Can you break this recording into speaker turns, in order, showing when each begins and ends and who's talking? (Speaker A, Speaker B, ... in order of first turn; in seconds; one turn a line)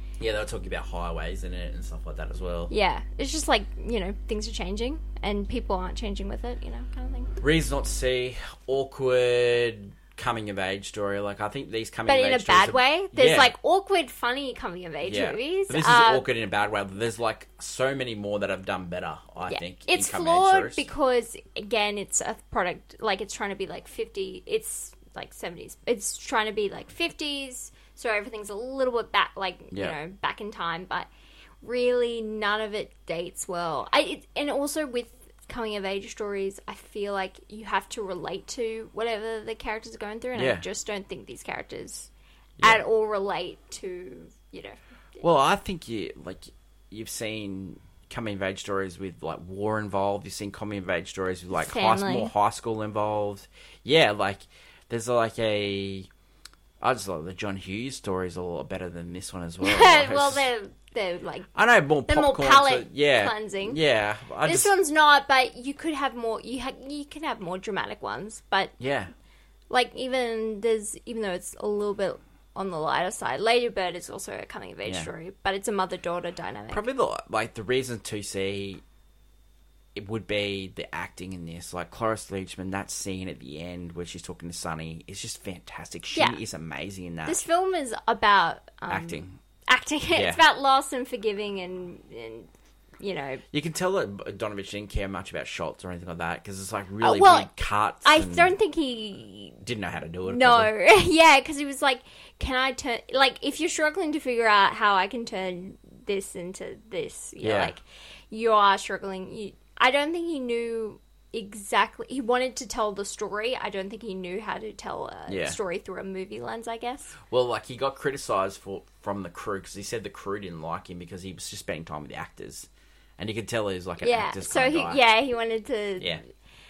Speaker A: 0.2-2.7
Speaker B: 2.7-7.3
Speaker A: 7.4-13.5
Speaker B: 12.1-16.3
Speaker A: 15.0-20.9
Speaker B: 19.5-31.1
Speaker A: 29.7-30.0
Speaker B: 31.6-42.1
Speaker A: 40.4-40.6
Speaker B: 42.6-44.8
Speaker A: 45.2-56.1
Speaker B: 51.5-52.3
Speaker A: 56.8-60.5
Speaker B: 59.6-61.5
Speaker A: 61.5-64.7
Speaker B: 62.1-63.8
Speaker B: 64.4-68.7
Speaker A: 68.8-69.1
Speaker B: 69.7-76.8
Speaker A: 74.9-75.1
Speaker A: 76.7-78.8
Speaker A: 80.0-87.4
Speaker B: 87.3-93.4
Speaker A: 88.9-89.4
Speaker A: 90.1-90.4
Speaker A: 93.5-98.5
Speaker B: 97.0-97.5
Speaker B: 98.0-99.6
Speaker A: 99.6-100.7
Speaker B: 100.3-117.2
Speaker A: 107.4-107.7
Speaker A: 115.3-115.6
Speaker A: 117.2-125.0
Speaker B: 124.0-126.2